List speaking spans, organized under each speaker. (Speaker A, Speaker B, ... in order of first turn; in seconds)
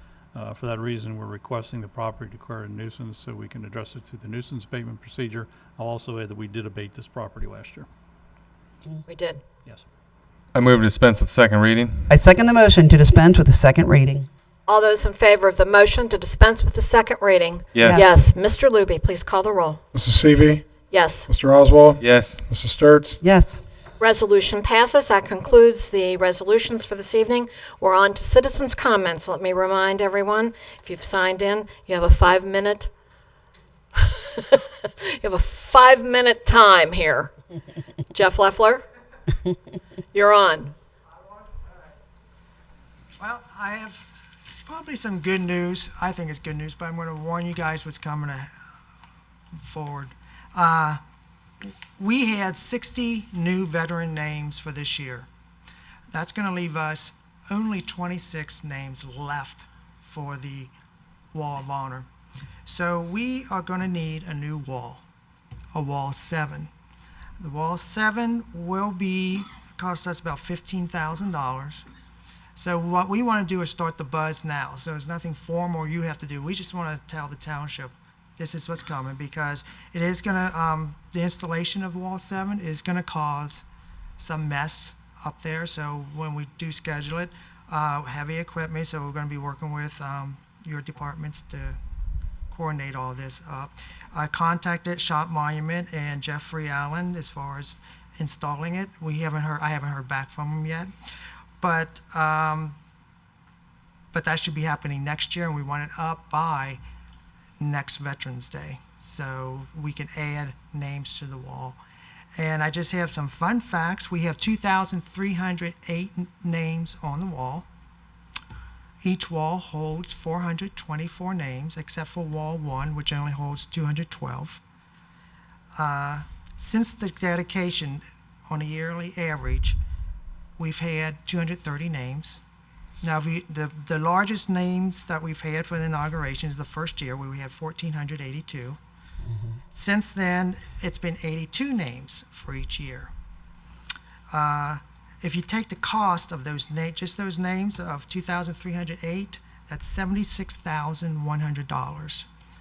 Speaker A: 0.3-7.9
Speaker B: 9.1-9.4, 14.7-19.8, 20.9-21.3, 24.0-32.9, 34.0-37.3, 38.1-38.8, 40.1-40.7
Speaker C: 10.5-12.1, 17.8-18.0, 22.0-22.4
Speaker D: 12.1-14.3, 17.8-18.2, 23.2-23.6
Speaker E: 19.9-20.6, 21.3-23.2
Speaker F: 43.2-44.1, 44.6-48.5, 49.6-51.0, 52.0-55.3, 56.1-60.7, 61.3-62.1, 62.7-65.0, 65.7-66.7, 67.4-71.8, 72.6-83.7, 84.2-91.8, 92.5-100.9, 101.6-102.8, 104.1-106.8, 107.6-111.8, 112.4-117.7, 119.0-124.6, 125.8-129.8, 130.6-132.4, 133.0-138.8, 139.7-143.1, 144.3-152.2